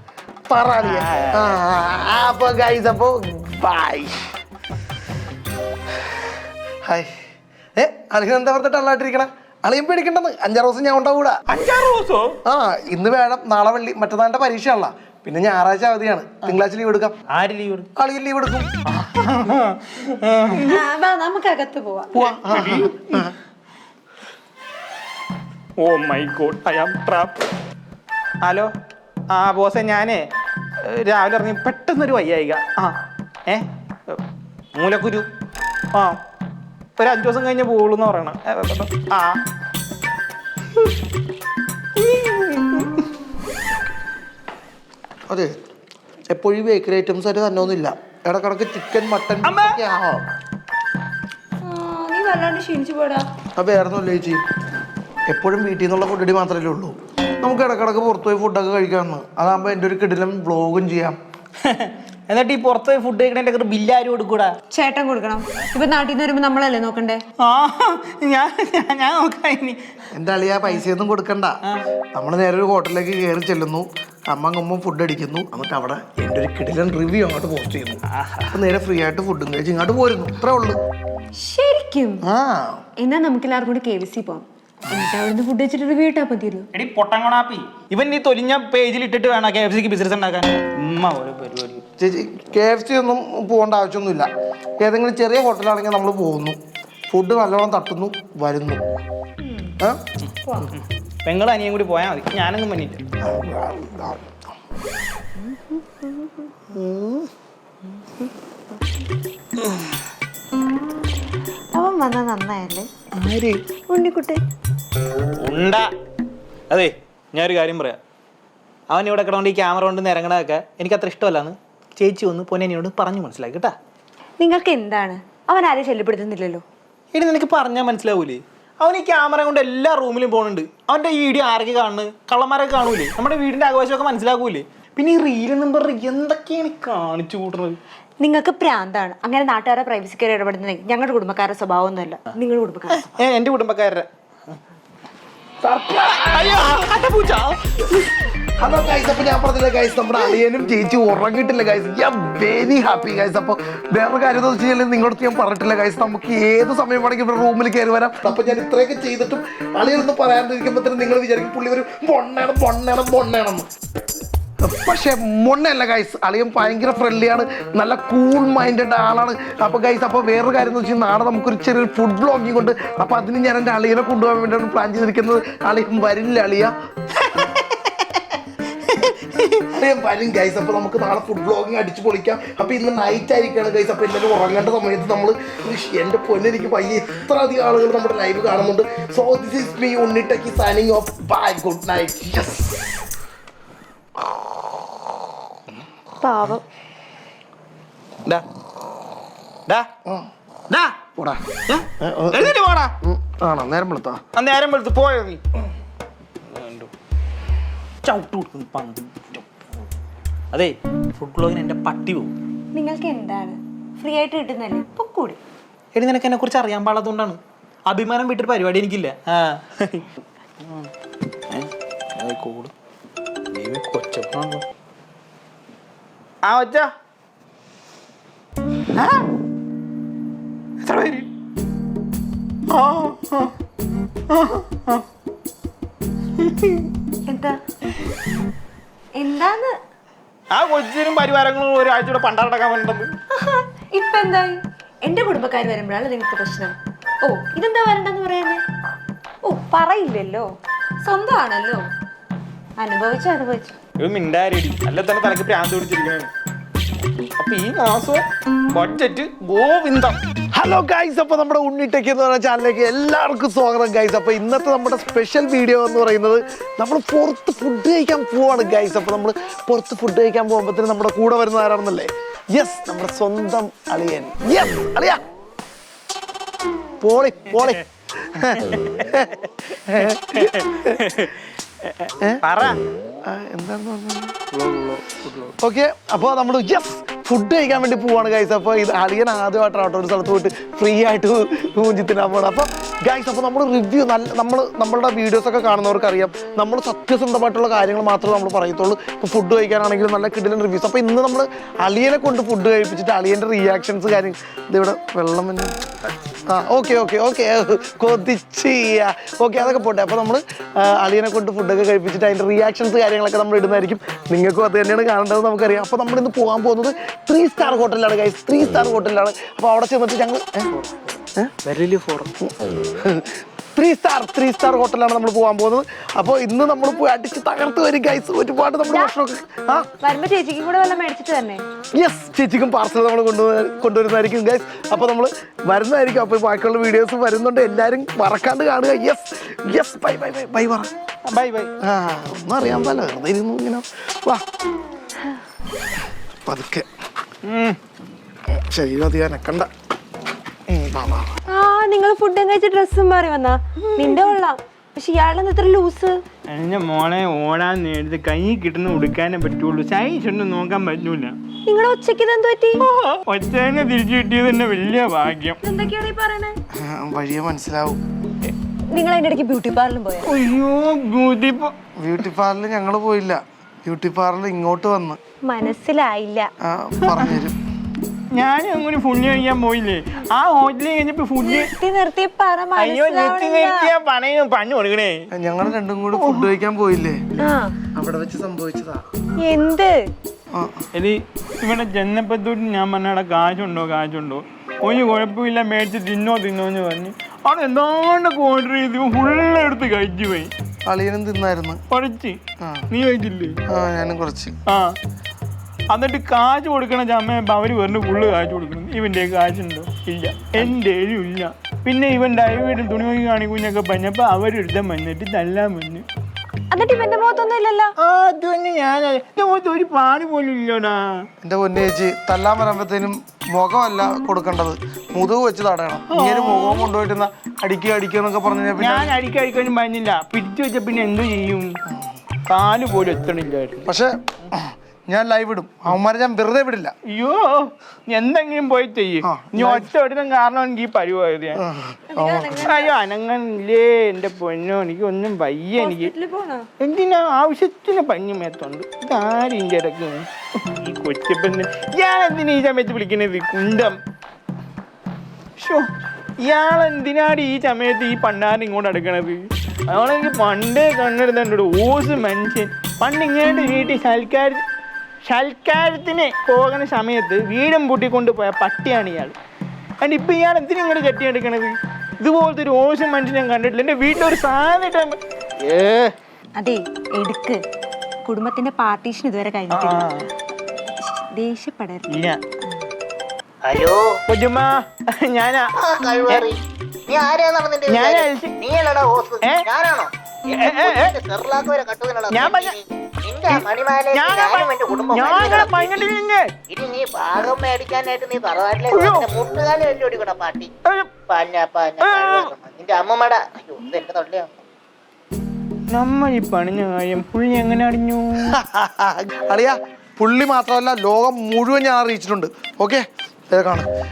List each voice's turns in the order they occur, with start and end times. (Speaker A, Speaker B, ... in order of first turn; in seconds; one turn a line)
Speaker A: 0.5-4.2
Speaker B: 0.8-1.6
Speaker A: 5.9-7.1
Speaker A: 7.8-11.4
Speaker B: 11.5-12.4
Speaker A: 12.4-17.1
Speaker B: 17.3-17.9
Speaker A: 17.9-18.7
Speaker B: 18.9-20.8
Speaker C: 20.5-22.1
Speaker B: 22.1-23.3
Speaker A: 22.1-23.3
Speaker B: 25.8-27.4
Speaker B: 28.4-28.7
Speaker B: 29.3-30.2
Speaker B: 30.8-34.2
Speaker B: 34.7-35.3
Speaker B: 35.9-36.2
Speaker B: 37.0-39.4
Speaker B: 42.0-43.1
Speaker A: 46.3-50.2
Speaker B: 49.4-49.8
Speaker C: 51.6-53.3
Speaker A: 53.5-54.4
Speaker A: 55.3-61.2
Speaker B: 61.6-64.5
Speaker C: 64.7-67.2
Speaker B: 67.4-69.8
Speaker A: 70.1-71.6
Speaker A: 72.2-80.8
Speaker B: 78.1-78.6
Speaker C: 81.3-82.2
Speaker A: 82.2-82.8
Speaker C: 83.0-86.7
Speaker B: 86.7-91.8
Speaker A: 92.0-94.3
Speaker A: 94.8-96.6
Speaker A: 97.1-98.9
Speaker C: 99.4-99.8
Speaker B: 100.2-103.0
Speaker A: 103.2-104.4
Speaker C: 105.4-106.8
Speaker A: 106.7-107.2
Speaker C: 111.7-112.9
Speaker B: 113.1-113.6
Speaker C: 113.9-114.4
Speaker B: 115.4-115.9
Speaker B: 116.7-118.0
Speaker B: 118.9-123.7
Speaker C: 124.4-126.6
Speaker B: 127.1-137.8
Speaker C: 138.2-143.1
Speaker B: 142.9-144.1
Speaker A: 145.6-146.8
Speaker B: 145.9-147.8
Speaker A: 148.6-163.7
Speaker A: 164.6-176.7
Speaker B: 178.9-179.6
Speaker A: 179.7-193.0
Speaker C: 196.2-196.6
Speaker B: 200.7-201.0
Speaker A: 201.2-201.4
Speaker B: 201.7-202.9
Speaker A: 202.0-204.2
Speaker B: 204.3-205.4
Speaker B: 206.4-206.9
Speaker B: 208.0-209.4
Speaker B: 210.5-212.3
Speaker C: 212.7-215.4
Speaker B: 215.9-220.1
Speaker B: 220.6-220.9
Speaker B: 221.5-222.7
Speaker B: 223.5-224.6
Speaker B: 226.4-226.9
Speaker B: 228.9-229.2
Speaker B: 230.8-231.3
Speaker B: 232.7-233.5
Speaker B: 234.3-235.0
Speaker B: 236.4-236.9
Speaker C: 237.3-237.6
Speaker C: 239.2-239.7
Speaker B: 240.5-243.1
Speaker C: 243.3-248.6
Speaker C: 249.4-250.5
Speaker C: 251.0-251.8
Speaker C: 252.8-253.8
Speaker B: 254.0-256.3
Speaker B: 257.2-260.2
Speaker A: 260.5-275.2
Speaker A: 277.0-281.0
Speaker B: 278.4-279.3
Speaker B: 279.8-282.8
Speaker A: 283.2-284.4
Speaker B: 284.5-285.5
Speaker A: 285.6-305.8
Speaker A: 306.5-320.7
Speaker B: 320.7-321.1
Speaker B: 321.6-322.3
Speaker A: 322.4-329.9
Speaker C: 328.8-329.1
Speaker C: 330.0-331.6
Speaker A: 331.9-340.9
Speaker B: 341.3-341.7
Speaker A: 341.8-344.4
Speaker A: 346.4-346.9
Speaker B: 347.4-347.8
Speaker A: 348.5-349.7
Speaker A: 350.7-351.3
Speaker C: 351.5-356.2
Speaker B: 353.8-354.3
Speaker B: 356.5-361.3
Speaker C: 361.7-362.8
Speaker B: 362.8-365.6
Speaker C: 365.6-366.6
Speaker A: 366.8-368.0
Speaker C: 368.9-370.3
Speaker B: 370.2-371.7
Speaker A: 372.0-375.2
Speaker C: 375.4-376.5
Speaker A: 376.6-377.6
Speaker B: 377.1-377.4
Speaker B: 378.3-381.7
Speaker C: 381.4-383.9
Speaker B: 382.8-385.2
Speaker A: 385.3-387.2
Speaker B: 386.2-386.5
Speaker C: 387.4-387.8
Speaker A: 387.9-389.0
Speaker C: 389.4-390.0
Speaker A: 390.5-390.8
Speaker B: 390.9-400.5
Speaker A: 400.8-401.8
Speaker B: 401.9-402.4
Speaker A: 402.6-402.9
Speaker B: 402.9-403.6
Speaker A: 403.7-404.6
Speaker B: 404.7-405.0
Speaker B: 405.9-416.1
Speaker C: 416.7-417.9
Speaker B: 418.0-421.3
Speaker A: 421.4-429.1
Speaker B: 426.1-426.9
Speaker B: 428.8-431.7
Speaker A: 431.9-432.2
Speaker B: 432.5-433.9
Speaker A: 433.8-436.9
Speaker B: 437.1-441.6
Speaker A: 439.2-439.9
Speaker A: 441.5-442.7
Speaker C: 442.1-442.9
Speaker B: 442.6-446.1
Speaker C: 445.8-446.7
Speaker B: 446.8-454.0
Speaker B: 455.6-455.9
Speaker B: 456.4-464.6
Speaker B: 465.2-469.3
Speaker B: 470.0-475.2
Speaker D: 475.6-476.1
Speaker C: 476.6-477.6
Speaker C: 478.2-480.2
Speaker B: 479.7-480.3
Speaker C: 481.0-482.2
Speaker B: 482.1-482.4
Speaker D: 483.6-484.2
Speaker B: 484.3-485.7
Speaker D: 485.8-496.1
Speaker B: 487.9-488.6
Speaker B: 489.4-489.7
Speaker B: 490.5-491.1
Speaker B: 492.3-492.7
Speaker B: 493.5-496.5
Speaker D: 496.7-500.7
Speaker B: 498.9-499.3
Speaker B: 500.8-501.2
Speaker D: 501.3-504.6
Speaker B: 502.0-502.5
Speaker B: 505.9-508.6
Speaker A: 508.4-513.9